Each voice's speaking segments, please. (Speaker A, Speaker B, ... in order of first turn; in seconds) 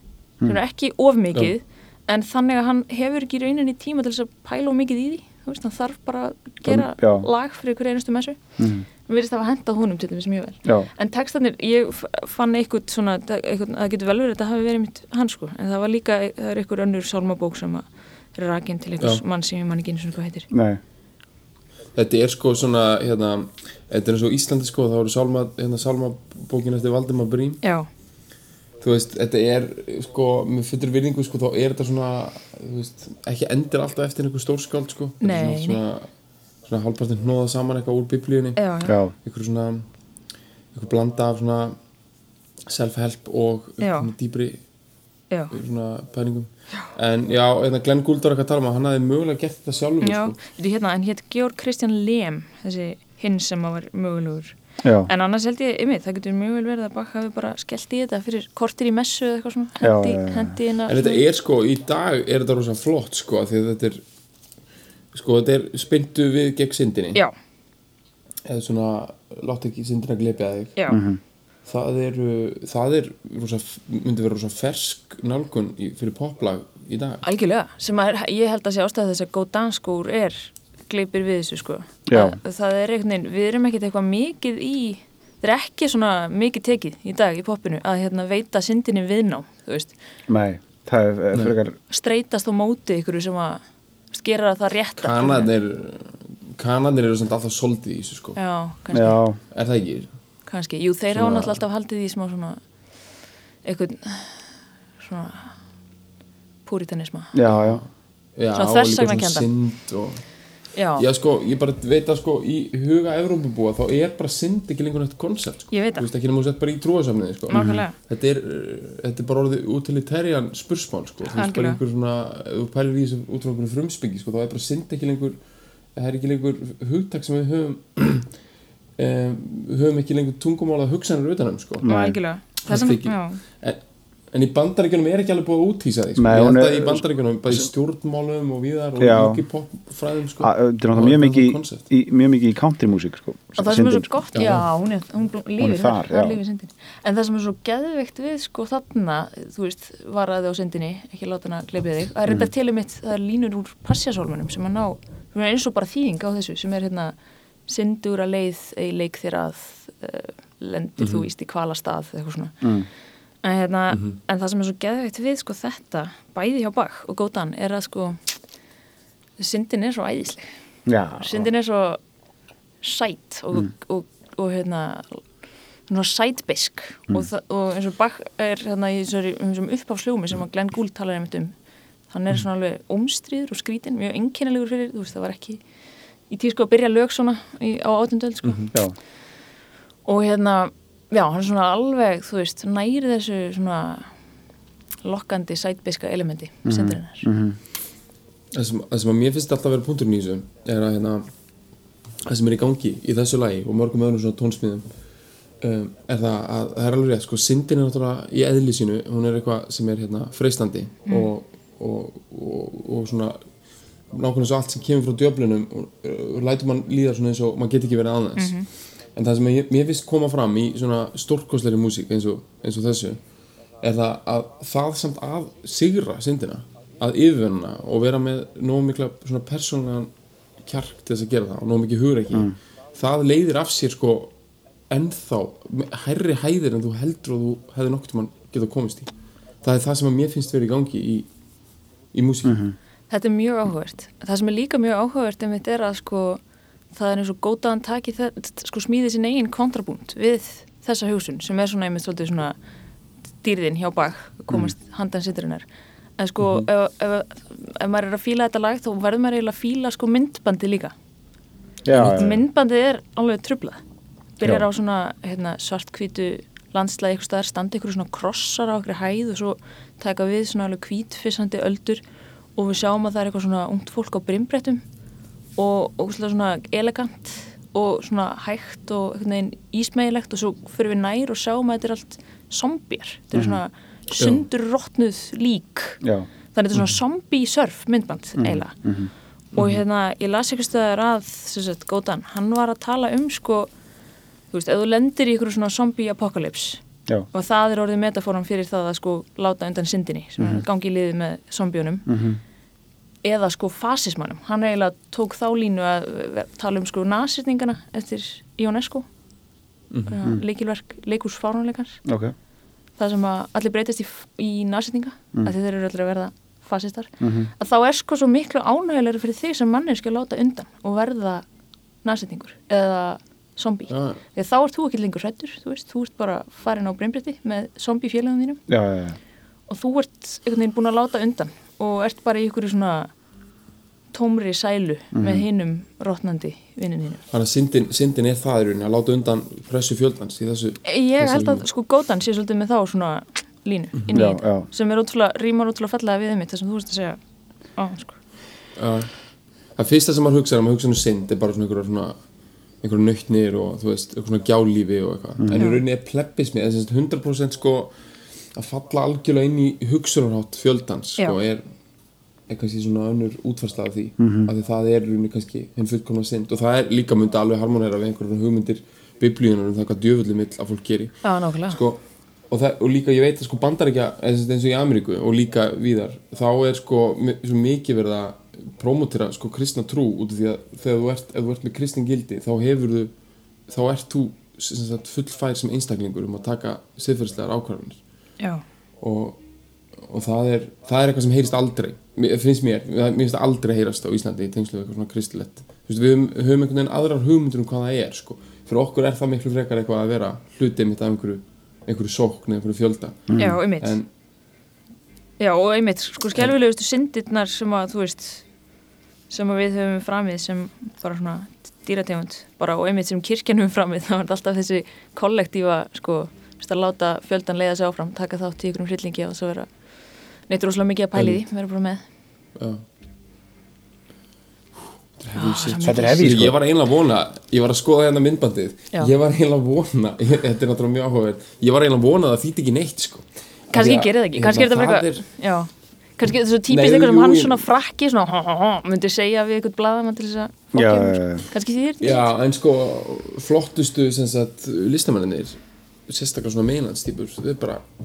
Speaker A: 0.4-8.4, 9.1-20.5, 27.6-27.9, 35.2-35.8, 38.6-39.0, 43.8-44.1, 50.0-54.5, 55.1-61.2, 77.2-89.9, 91.9-95.5, 98.4-99.2, 100.5-102.6, 103.7-104.4, 105.0-105.5, 106.7-107.4, 108.5-109.5, 110.8-111.0, 115.7-116.1, 117.5-118.0, 121.3-121.8, 131.9-133.4, 143.6-157.2, 157.7-162.6, 163.4-168.2, 169.4-170.5, 171.2-172.0, 172.8-175.2, 175.9-181.5, 182.1-185.6, 186.3-188.7, 190.1-194.1, 195.0-197.3, 211.1-211.3, 218.4-218.7, 243.1-246.4, 246.9-252.6, 253.4-255.7, 256.2-260.9, 261.9-263.8, 264.4-272.0, 272.6-274.8, 275.6-286.0, 286.5-288.8, 289.6-293.7, 294.5-296.8, 297.3-302.1, 303.2-309.1, 310.1-312.0, 313.0-321.4, 322.0-328.6, 329.7-333.1, 334.1-337.2, 340.9-347.2, 347.8-348.2, 355.6-355.8, 371.2-371.8, 403.4-404.0, 405.4-408.4, 409.3-419.7, 420.5-422.0, 425.3-426.3, 433.7-442.3
Speaker B: 6.6-7.3, 8.6-8.9, 10.7-10.9, 20.5-20.8, 38.9-39.1, 54.8-55.1, 59.8-60.5, 70.9-71.2, 82.1-82.4, 90.3-91.8, 98.9-99.4, 107.3-107.8, 117.5-117.8, 131.8-132.2, 136.2-137.6, 139.0-139.4, 140.4-144.1, 145.6-146.4, 162.6-162.9, 170.9-171.4, 196.7-197.6, 242.4-242.8, 261.9-262.4, 283.3-283.6, 286.0-286.3, 288.4-289.1, 300.4-300.6, 302.1-302.4, 312.1-312.3, 317.2-317.5, 328.7-329.2, 335.1-335.5, 344.1-344.7, 355.4-355.7, 364.2-364.5, 403.3-403.6, 425.8-426.6, 440.7-441.5
Speaker C: 22.0-27.6, 28.8-36.1, 36.7-38.6, 39.2-39.9, 40.7-41.8, 42.7-44.6, 45.5-50.4, 60.9-64.0, 65.1-67.2, 68.5-70.8, 71.7-77.2, 95.0-98.4, 99.5-100.1, 101.2-101.5, 108.4-110.2, 111.0-125.4, 126.0-128.3, 129.0-131.9, 132.6-133.8, 134.3-141.8, 144.3-144.7, 161.0-161.2, 198.5-201.3, 202.3-204.9, 205.6-213.4, 214.1-218.6, 219.2-223.2, 223.8-230.1, 230.6-234.3, 234.9-239.1, 239.6-241.3, 242.1-242.6, 256.4-256.7, 261.9-262.3, 289.6-289.8, 323.9-324.2, 337.3-341.6, 348.8-349.1, 349.8-352.2, 352.8-357.9, 358.5-361.6, 362.5-371.2, 371.7-383.1, 383.7-388.0, 389.0-389.4, 390.0-404.1, 422.6-422.8, 425.2-435.2, 436.7-437.7, 442.0-447.8